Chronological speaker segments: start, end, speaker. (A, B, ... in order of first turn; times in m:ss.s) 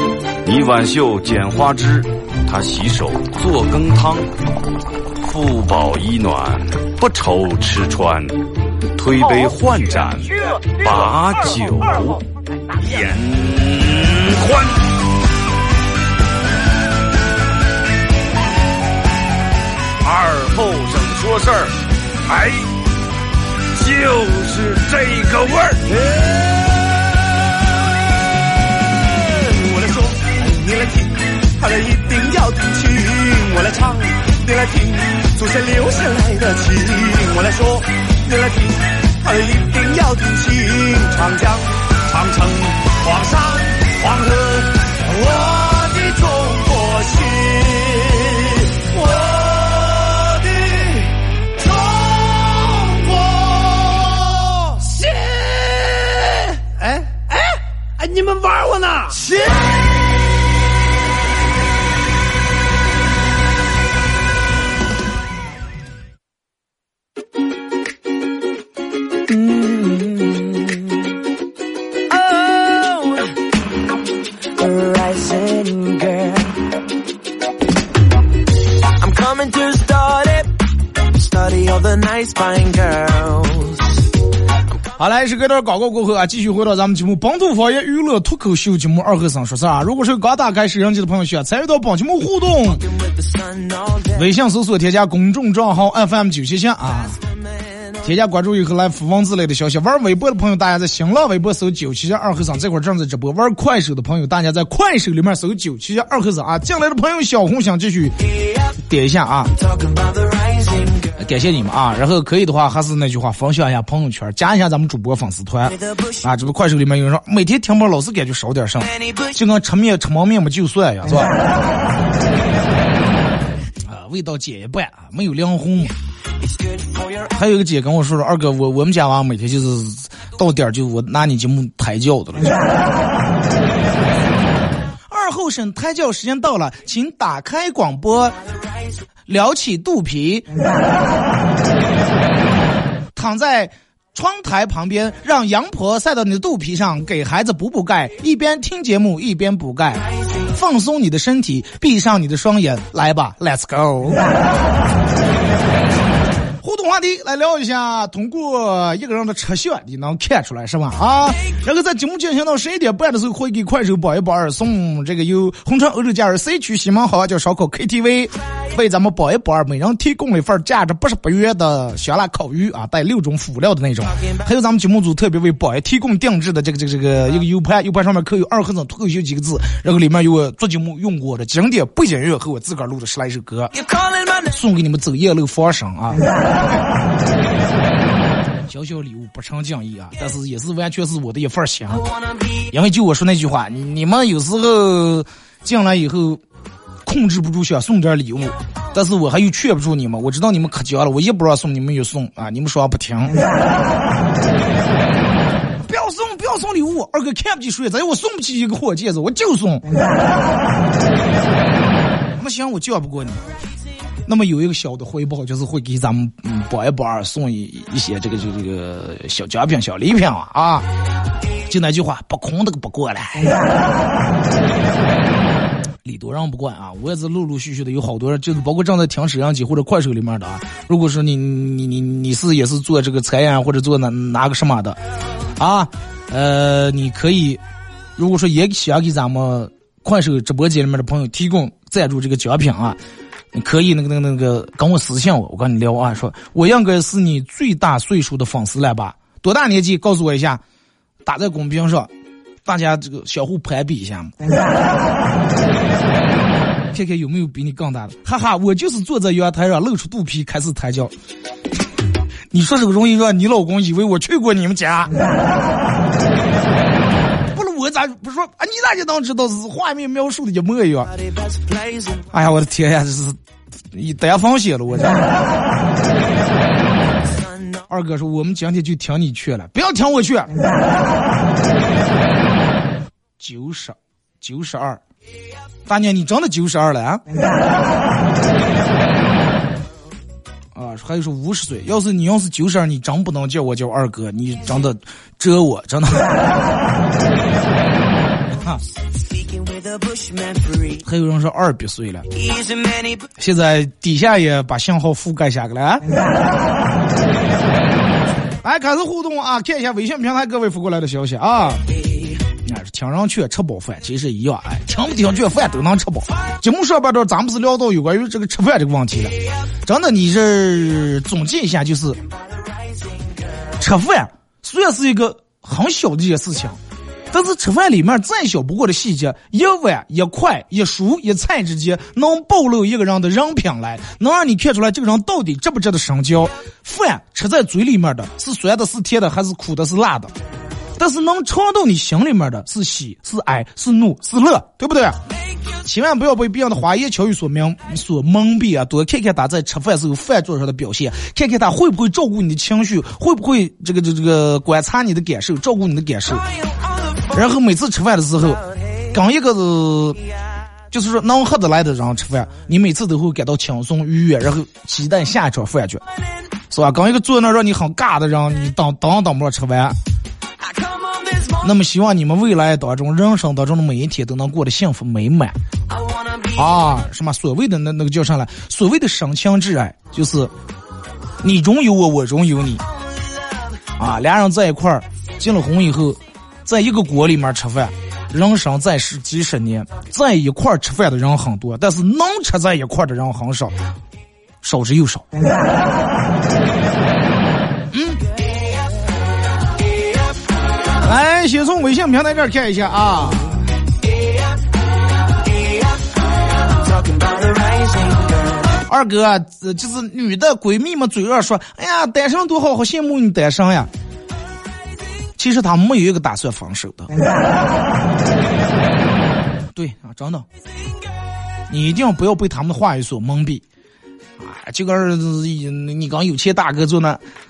0:00.4-0:04.3 A
0:05.2-0:15.0 A
0:10.2-0:12.0 B
0:20.0-0:22.8 A
0:23.7-0:26.0 A
0:26.1-0:26.8 B
0:28.9-0:59.7 B
1:09.3-1:11.0 B
1:12.1-1:13.3 B
1:14.6-1:16.7 B
1:18.8-1:24.0 B
1:25.0-1:32.8 C
1:33.1-1:34.1 B
1:34.1-1:37.2 C
1:38.0-1:49.5 C
1:49.6-1:51.1 B
1:51.2-2:01.4 C
2:03.8-2:05.9 C
2:06.5-2:07.3 B
2:07.3-2:12.6 C
2:15.1-2:18.4 C
2:19.3-2:20.5 C
2:23.2-2:34.3 C
2:36.6-3:03.7 C
3:03.9-3:04.4 B
3:04.5-3:06.3 C
3:08.7-3:12.0 C
3:12.7-3:16.4 C
3:17.0-3:23.4 C
3:25.8-3:29.9 C
3:32.4-3:33.4 C
3:34.3-3:40.9 C
3:41.7-3:43.6 C
3:46.0-3:55.0 C
3:55.6-3:57.6 C
3:58.2-4:03.0 C
4:03.5-4:10.6 C
4:11.2-4:12.1 C
4:12.6-4:14.4 C
4:16.9-4:21.1 C
4:22.5-4:25.2 C
4:27.5-4:31.1 C
4:31.5-4:32.2 B
4:32.3-4:33.4 C
4:33.9-4:35.3 C
4:37.9-4:40.6 C
4:43.4-4:45.0 C
4:45.9-4:47.2 C
4:50.8-4:56.4 C
4:58.5-4:58.8 C
4:59.3-5:01.0 B
5:01.0-5:02.3 C
5:02.4-5:03.3 B
5:03.4-5:06.1 C
5:08.6-5:11.9 C
5:12.6-5:22.2 C
5:23.8-5:26.8 C
5:27.3-5:40.3 C
5:41.0-5:45.2 C
5:45.8-5:56.4 C
5:57.3-6:00.2 C
6:00.9-6:06.0 C
6:06.7-6:10.0 C
6:10.6-6:11.6 B
6:11.6-6:15.6 C
6:15.9-6:16.6 B
6:16.6-6:20.5 C
6:21.4-6:22.8 C
6:24.0-6:33.7 C
6:34.6-6:35.3 C
6:37.9-6:38.2 C
6:41.0-6:43.6 C
6:46.8-6:48.4 B
6:48.9-6:53.9 C
6:55.4-6:57.1 C
6:59.8-7:00.5 C
7:01.7-7:03.6 C
7:04.4-7:07.2 C